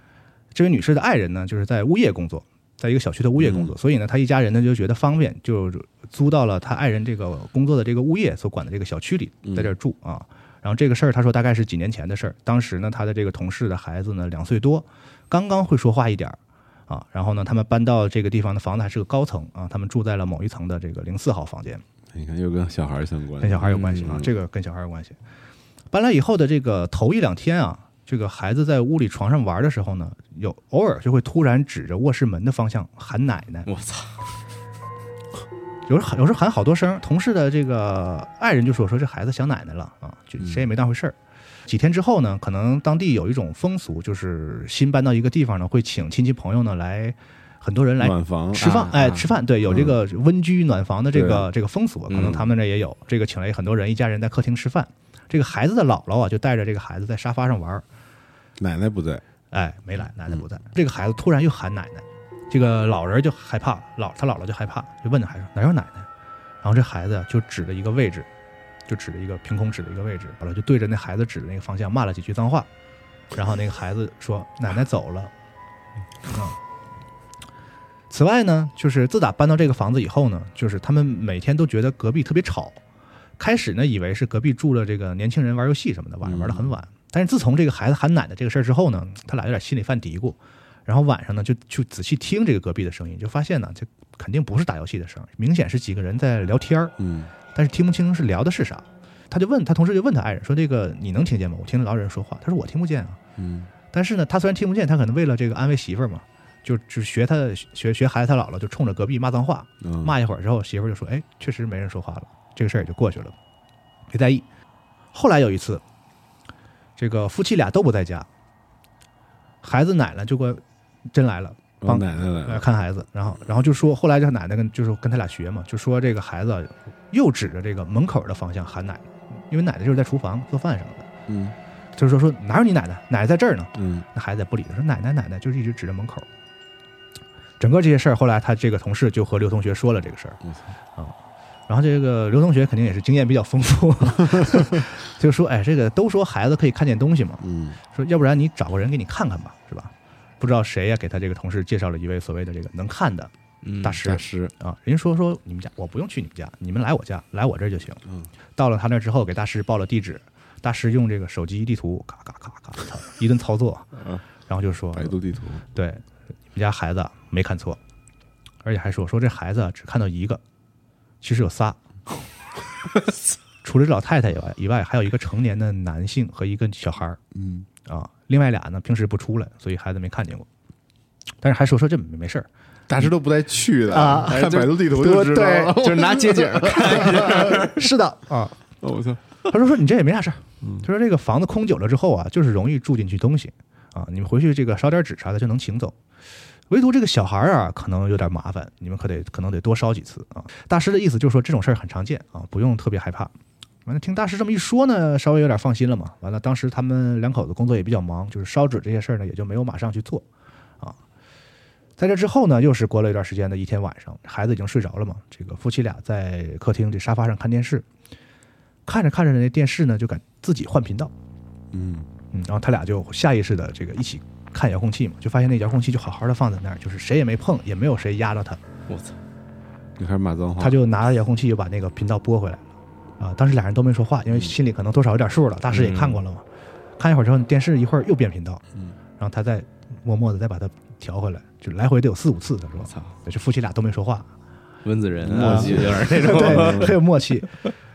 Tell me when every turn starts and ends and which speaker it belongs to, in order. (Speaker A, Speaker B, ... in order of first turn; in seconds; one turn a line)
Speaker A: 0.5-21.8
Speaker B: 3.4-3.7
Speaker B: 9.5-9.7
Speaker B: 22.1-24.3
Speaker A: 23.4-25.2
Speaker C: 23.6-24.2
Speaker A: 25.9-33.7
Speaker C: 33.7-34.3
Speaker A: 35.9-41.1
Speaker A: 41.7-57.8
Speaker B: 48.0-48.7
Speaker C: 48.6-49.3
Speaker B: 49.7-50.0
Speaker B: 51.1-51.5
Speaker C: 52.1-52.4
Speaker B: 58.6-59.2
Speaker A: 59.5-66.1
Speaker A: 66.6-68.3
Speaker A: 68.9-72.7
Speaker A: 73.3-75.3
Speaker A: 76.3-76.6
Speaker A: 78.1-82.8
Speaker A: 83.4-96.9
Speaker B: 86.2-86.7
Speaker B: 97.0-97.3
Speaker A: 97.5-103.2
Speaker B: 103.4-103.7
Speaker A: 103.9-113.3
Speaker B: 109.8-110.1
Speaker A: 114.1-114.5
Speaker A: 115.1-115.8
Speaker A: 117.0-118.3
Speaker A: 119.6-131.1
Speaker B: 121.8-122.7
Speaker B: 131.3-131.6
Speaker A: 132.0-136.3
Speaker B: 133.8-134.1
Speaker A: 137.6-140.4
Speaker A: 141.7-158.0
Speaker B: 147.4-147.8
Speaker C: 153.6-154.0
Speaker B: 154.0-154.5
Speaker A: 158.6-163.9
Speaker B: 164.0-164.2
Speaker A: 164.5-165.2
Speaker B: 164.9-165.6
Speaker A: 165.7-167.8
Speaker A: 168.6-170.4
Speaker A: 171.2-171.8
Speaker A: 173.6-177.2
Speaker B: 177.3-177.7
Speaker A: 177.8-180.5
Speaker A: 181.4-182.5
Speaker B: 182.9-187.7
Speaker A: 183.9-185.8
Speaker C: 184.3-184.7
Speaker C: 185.8-187.8
Speaker A: 187.3-188.6
Speaker B: 188.8-189.2
Speaker A: 189.5-195.9
Speaker A: 196.7-203.3
Speaker A: 203.9-210.2
Speaker A: 212.0-217.9
Speaker A: 218.9-221.1
Speaker B: 221.7-222.1
Speaker A: 222.3-228.6
Speaker C: 228.9-229.2
Speaker B: 230.0-230.8
Speaker A: 230.6-232.6
Speaker A: 233.2-236.4
Speaker C: 235.7-236.2
Speaker A: 237.0-238.6
Speaker A: 239.2-244.3
Speaker C: 242.9-243.1
Speaker C: 244.8-247.0
Speaker B: 245.2-247.0
Speaker A: 245.3-247.5